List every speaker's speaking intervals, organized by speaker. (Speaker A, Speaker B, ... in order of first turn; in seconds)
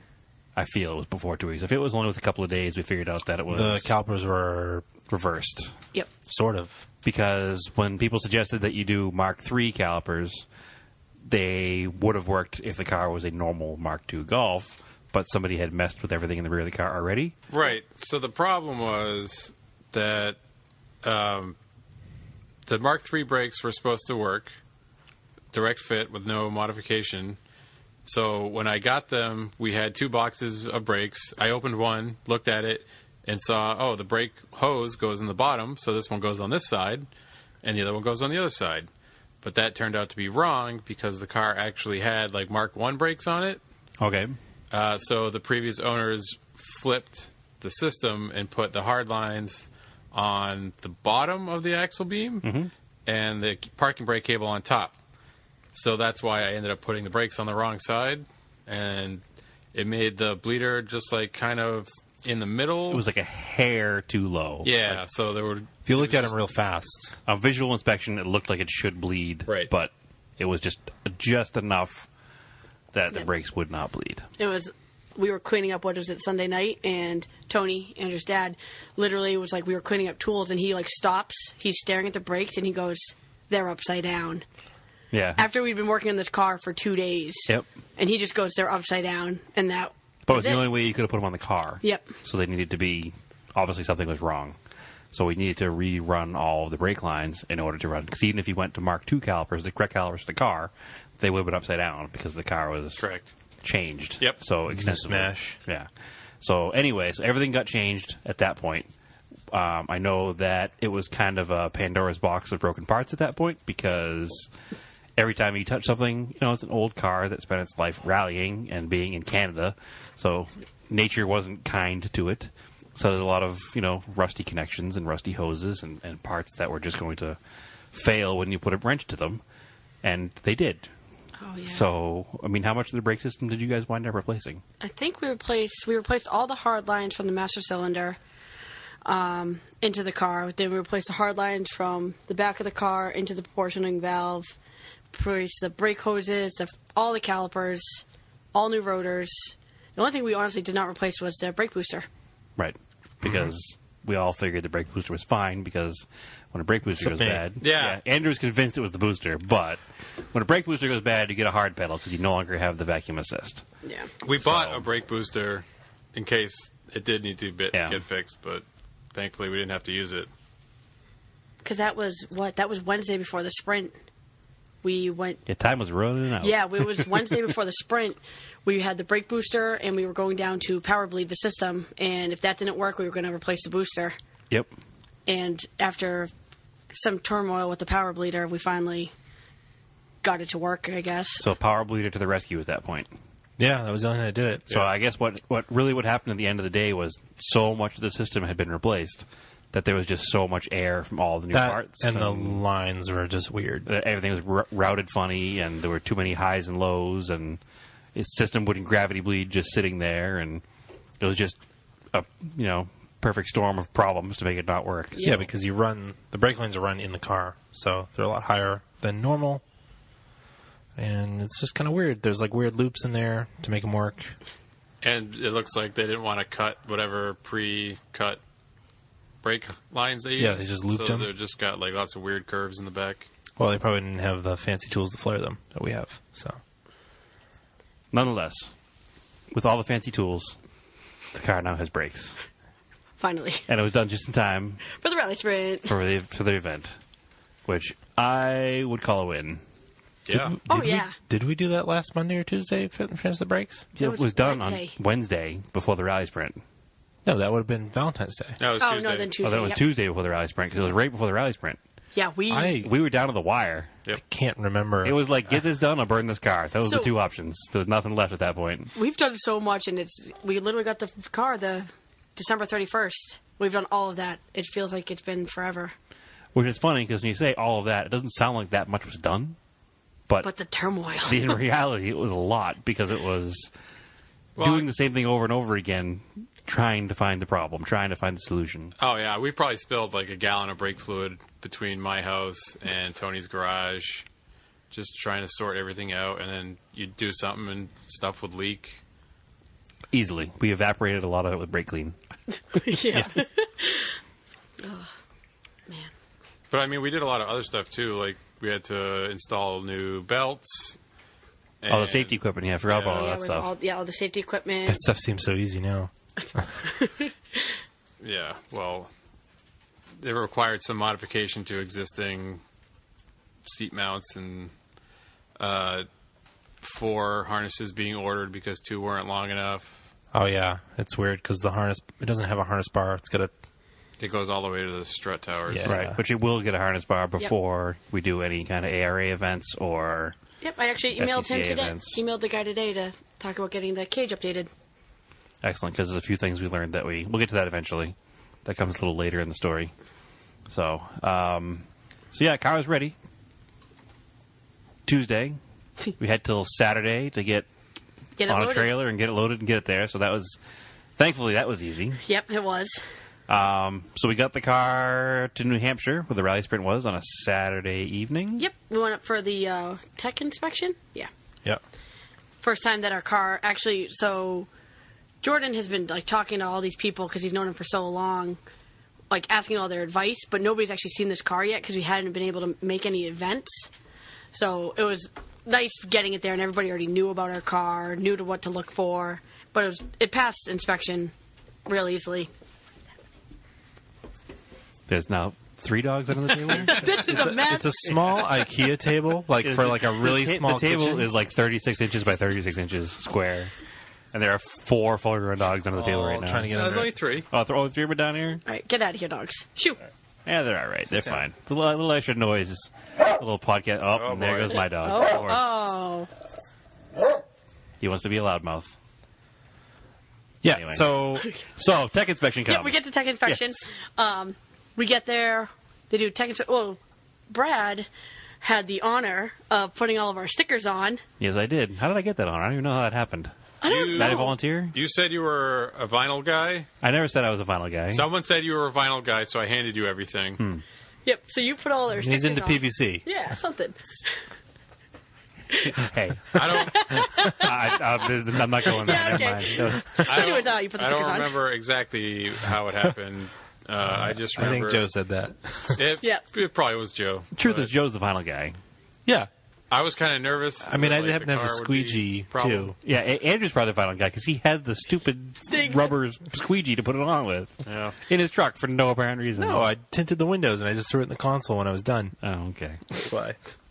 Speaker A: 0.6-3.9, 5.1-5.8, 7.0-10.4, 11.2-17.4, 44.0-44.4, 52.4-52.7, 62.9-65.0, 67.3-72.1, 72.9-74.3, 85.1-85.4, 90.3-94.6, 95.1-103.1, 103.6-105.9, 106.4-108.9, 109.5-114.5, 115.2-127.4, 127.9-129.4, 130.0-130.9, 131.7-134.6, 152.6-159.8, 160.3-163.6, 164.4-164.9, 167.7-168.0, 175.5-177.1, 191.4-193.1, 194.7-202.6, 203.9-207.6, 208.2-210.6, 211.2-211.6, 212.1-215.5, 238.1-238.7, 239.5-240.6, 241.3-242.4, 243.7-244.8, 245.9-247.0, 247.7-249.6, 253.9-256.6, 259.4-261.8, 262.7-263.9, 265.0-268.9, 276.5-279.6, 281.2-283.7, 284.6-288.9, 300.1-302.2, 311.9-313.7, 335.9-340.4, 341.2-342.2, 345.6-349.9, 350.7-353.1, 355.1-355.6, 356.2-357.7, 358.5-360.6, 361.2-362.2, 363.5-368.6, 395.1-397.3, 399.6-403.7, 404.3-406.8, 407.5-408.6, 410.5-415.8, 418.0-418.9, 420.7-421.1, 421.8-423.6, 431.4-433.5, 434.0-435.0, 437.0-438.3, 440.6-440.8, 445.9-450.2, 457.6-458.8, 463.0-469.9, 472.4-473.0
Speaker B: 3.5-4.9, 6.3-6.8, 65.9-67.2, 104.7-105.6, 153.2-153.5, 157.0-157.5, 193.6-194.7, 201.5-203.9, 215.2-219.6, 221.0-224.3, 230.4-231.3, 233.6-236.6, 250.3-253.9, 257.3-258.6, 262.5-262.9, 264.1-265.2, 314.9-316.7, 330.3-333.5, 335.7-336.2, 397.2-401.3, 405.9-407.1, 420.6-421.5, 442.2-443.2, 454.1-456.0, 460.8-463.0, 469.6-472.4, 473.1-473.6
Speaker C: 17.5-20.4, 21.0-21.6, 22.7-24.6, 25.5-27.4, 28.1-37.1, 37.6-38.9, 39.4-43.6, 44.7-52.5, 53.1-55.0, 55.7-59.2, 59.7-63.0, 64.6-66.3, 103.0-103.3, 157.6-158.0, 164.2-170.3, 225.0-228.4, 229.4-233.3, 250.3-250.6, 258.6-259.4, 284.6-284.9, 289.0-294.3, 294.9-299.0, 306.7-311.0, 311.8-313.3, 318.2-319.1, 320.2-322.6, 323.6-324.7, 325.6-326.1, 326.8-330.0, 334.2-336.0, 406.7-407.5, 414.1-414.8, 433.8-436.9, 438.1-440.6, 446.5-447.2, 450.2-455.1, 455.9-457.9, 459.9-462.9, 467.9-468.2
Speaker D: 74.4-84.5, 85.4-90.7, 91.8-92.1, 131.4-131.9, 134.8-138.2, 139.1-144.6, 145.1-152.1, 163.8-164.1, 171.6-173.9, 174.8-175.4, 176.4-184.2, 185.3-186.3, 186.9-189.1, 190.2-191.5, 215.2-215.4, 243.2-243.7, 244.9-245.9, 250.7-251.2, 254.0-254.9, 258.8-259.9, 262.1-262.8, 266.8-267.1, 268.9-275.9, 280.4-281.6, 302.7-304.2, 304.8-305.1, 313.0-315.0, 316.4-317.8, 340.6-344.7, 358.4-359.0, 362.2-363.0, 368.6-371.3, 372.6-374.7, 375.4-378.6, 379.3-383.9, 384.5-391.3, 391.9-392.5, 396.7-398.5, 408.7-410.0, 415.0-416.3, 422.7-428.1, 428.6-431.2, 433.8-434.6, 441.2-444.3, 446.7-448.0, 448.9-451.6, 465.7-466.1